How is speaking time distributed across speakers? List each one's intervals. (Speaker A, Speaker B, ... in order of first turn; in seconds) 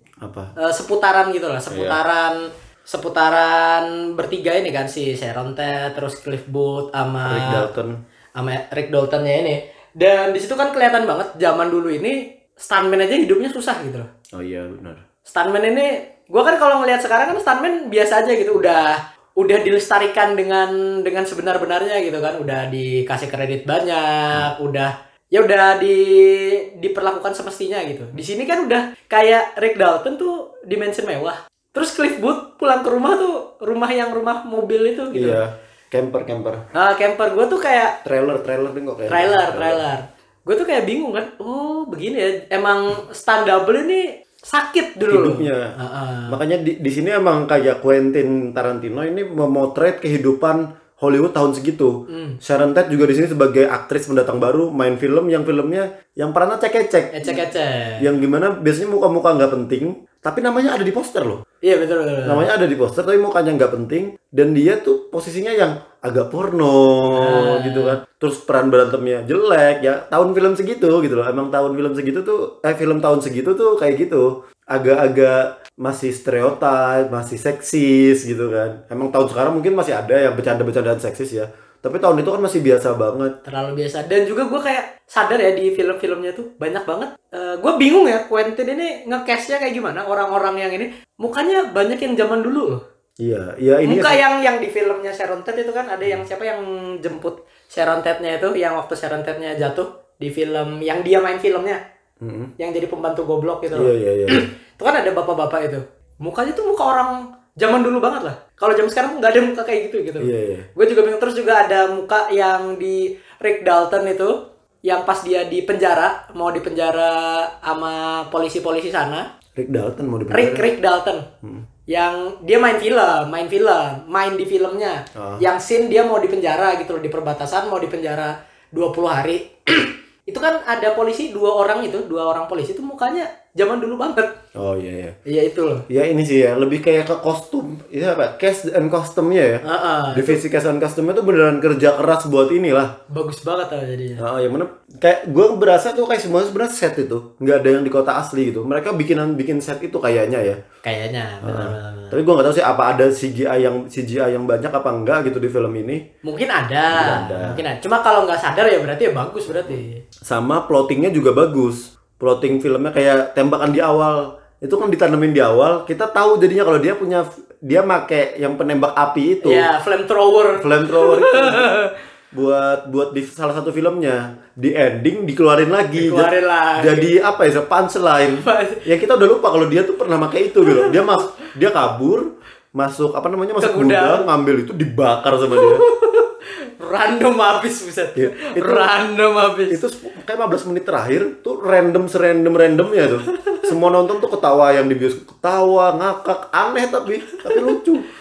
Speaker A: 0.2-0.5, 1.7-2.0, 7.2-7.9, 14.3-15.0, 35.1-36.6, 38.0-39.8, 45.1-45.7, 46.3-57.4, 58.0-61.4, 62.3-83.3, 93.2-94.2, 102.2-102.5, 103.7-104.5, 110.2-110.7, 119.6-120.7, 125.2-125.5, 134.6-135.2, 135.9-142.9, 144.2-150.6, 151.4-156.0, 156.9-157.6, 159.5-169.7, 170.6-171.7, 172.3-185.8, 188.2-188.9, 189.7-198.1
Speaker B: 0.6-7.7, 8.4-14.1, 15.2-35.4, 36.7-38.0, 39.1-46.4, 52.1-52.4, 57.1-58.1, 61.6-62.5, 67.2-68.0, 83.5-92.8, 93.8-101.8, 102.6-119.3, 120.3-121.3, 121.9-134.4, 135.3-135.9, 139.6-140.4, 143.1-144.2, 150.8-152.2, 156.2-160.0, 169.4-171.9, 175.9-177.1, 178.3-178.8, 180.6-181.2, 183.6-184.3, 185.5-189.8, 197.5-197.8